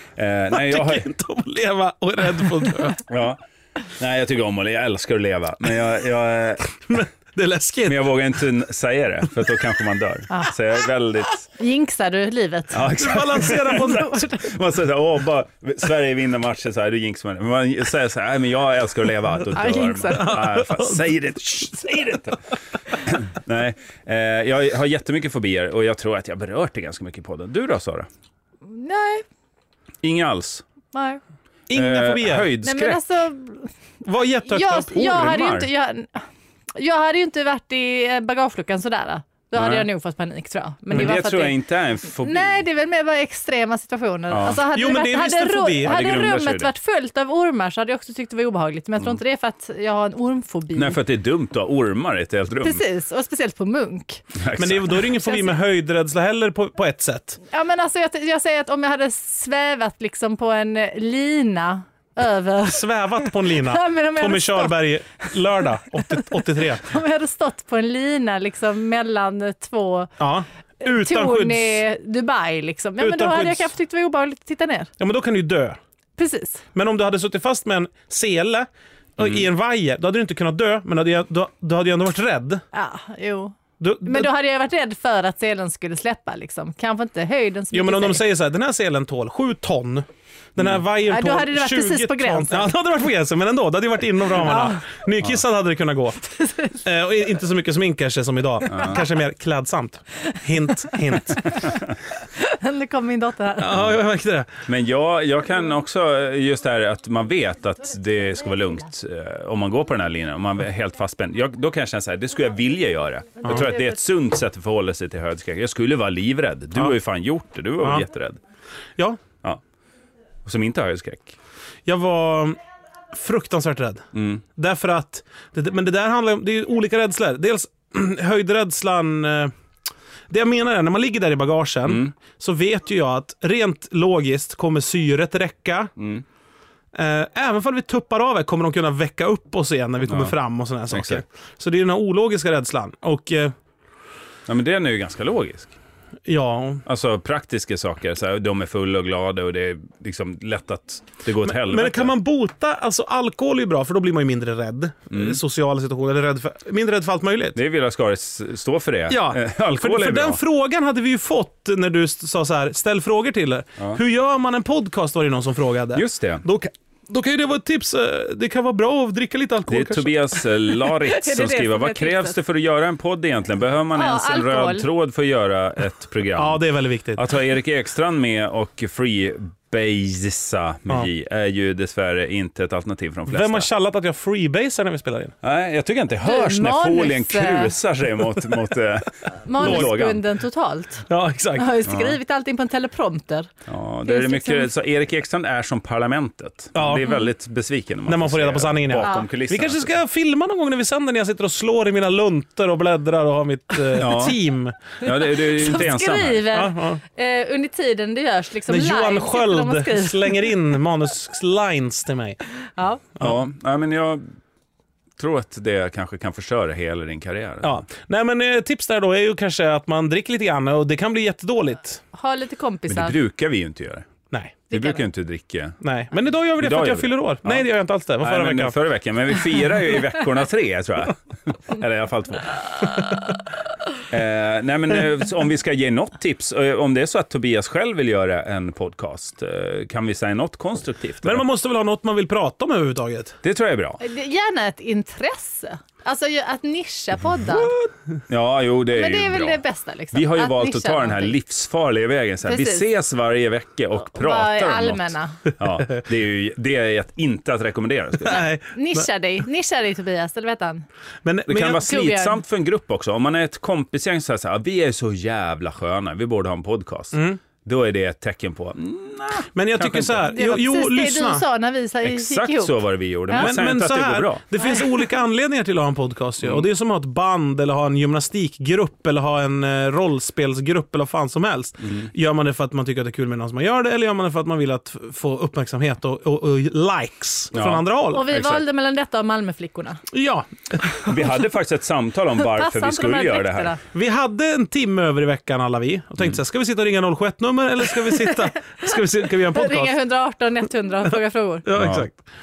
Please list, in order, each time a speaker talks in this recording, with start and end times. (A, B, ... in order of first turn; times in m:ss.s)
0:00.2-0:01.1 A
0:00.5-0:03.0 B
0:03.1-0:06.8 A
0:06.9-0:08.1 B
0:07.9-0:11.5 A
0:11.6-0:14.5 C
0:12.7-0:28.1 A
0:12.9-0:14.2 B
0:19.6-0:20.4 C
0:20.1-0:21.0 B
0:28.7-0:29.2 C
0:30.0-0:30.6 A
0:30.9-0:31.2 C
0:31.7-0:32.5 B
0:31.7-0:33.0 A
0:32.6-0:33.7 C
0:34.0-0:35.3 B
0:34.4-0:36.2 C
0:35.0-0:35.7 A
0:36.8-0:41.6 C
0:39.6-0:39.9 A
0:40.9-0:42.6 A
0:42.2-0:51.0 C
0:44.3-0:44.6 A
0:44.7-0:46.0 B
0:45.8-0:46.7 A
0:50.8-0:52.8 A
0:52.6-0:54.2 C
0:54.4-0:55.1 A
0:54.6-0:57.4 B
0:55.1-0:55.6 C
0:57.5-1:05.3 C
1:02.7-1:07.0 B
1:06.1-1:10.1 C
1:10.2-1:11.8 B
1:10.8-1:14.9 C
1:13.0-1:13.7 B
1:15.0-1:15.8 B
1:16.2-1:16.6 C
1:16.7-1:22.6 B
1:19.2-1:19.4 A
1:22.7-1:28.3 C
1:23.8-1:24.3 B
1:27.7-1:41.6 B
1:31.0-1:32.7 C
1:34.4-1:34.9 C
1:36.3-1:36.8 C
1:38.7-1:39.0 A
1:41.2-1:41.6 C
1:42.4-1:43.9 C
1:43.6-1:44.5 B
1:44.7-1:58.4 A
1:57.8-1:58.1 B
2:00.4-2:01.4 A
2:01.9-2:02.6 B
2:03.1-2:09.5 B
2:04.1-2:04.4 A
2:10.3-2:15.9 B
2:11.9-2:12.1 A
2:16.0-2:16.2 A
2:16.9-2:23.6 B
2:20.1-2:20.4 A
2:20.9-2:21.2 A
2:24.5-2:25.7 A
2:26.2-2:26.8 B
2:26.9-2:32.1 A
2:31.4-2:37.6 B
2:35.1-2:35.4 A
2:37.6-2:40.4 A
2:39.1-2:50.2 B
2:46.0-2:46.4 A
2:49.7-2:56.6 A
2:50.8-2:52.4 C
2:54.0-2:54.9 C
2:56.4-2:57.2 B
2:57.2-3:03.7 A
3:03.3-3:05.3 B
3:05.4-3:10.2 A
3:06.2-3:07.7 C
3:09.4-3:13.5 C
3:09.6-3:09.9 B
3:11.1-3:11.7 B
3:11.9-3:12.2 A
3:13.7-3:19.9 A
3:14.0-3:14.7 C
3:16.8-3:17.1 B
3:18.1-3:24.8 B
3:19.0-3:19.3 C
3:23.9-3:24.4 A
3:25.0-3:26.5 A
3:25.2-3:30.5 C
3:26.5-3:27.0 B
3:28.7-3:32.4 B
3:32.8-3:33.0 C
3:33.2-3:34.2 A
3:35.2-3:37.8 A
3:37.6-3:42.0 B
3:42.1-3:43.2 C
3:42.9-3:44.1 A
3:44.3-3:44.6 B
3:44.7-3:45.8 A
3:44.7-3:45.0 C
3:45.8-3:48.8 B
3:46.6-3:47.7 A
3:48.2-3:53.1 A
3:54.1-4:01.4 A
4:01.2-4:03.4 B
4:03.4-4:04.0 A
4:04.0-4:07.8 C
4:07.5-4:09.6 A
4:08.9-4:11.4 C
4:10.1-4:18.4 A
4:12.4-4:12.9 C
4:14.1-4:15.4 C
4:18.2-4:19.1 B
4:18.3-4:20.8 C
4:21.2-4:21.8 B
4:21.5-4:30.3 A
4:21.7-4:22.4 C
4:27.1-4:27.4 B
4:29.6-4:31.4 B
4:30.3-4:33.6 C
4:32.0-4:34.4 A
4:33.4-4:48.3 B
4:34.6-4:35.0 C
4:41.8-4:42.1 A
4:47.5-4:48.6 A
4:48.1-4:50.0 C
4:50.1-4:51.1 B
4:51.0-4:53.7 A
4:52.4-4:53.8 C
4:53.9-4:59.9 B
4:58.2-5:01.7 C
5:01.6-5:02.2 B
5:01.7-5:02.1 A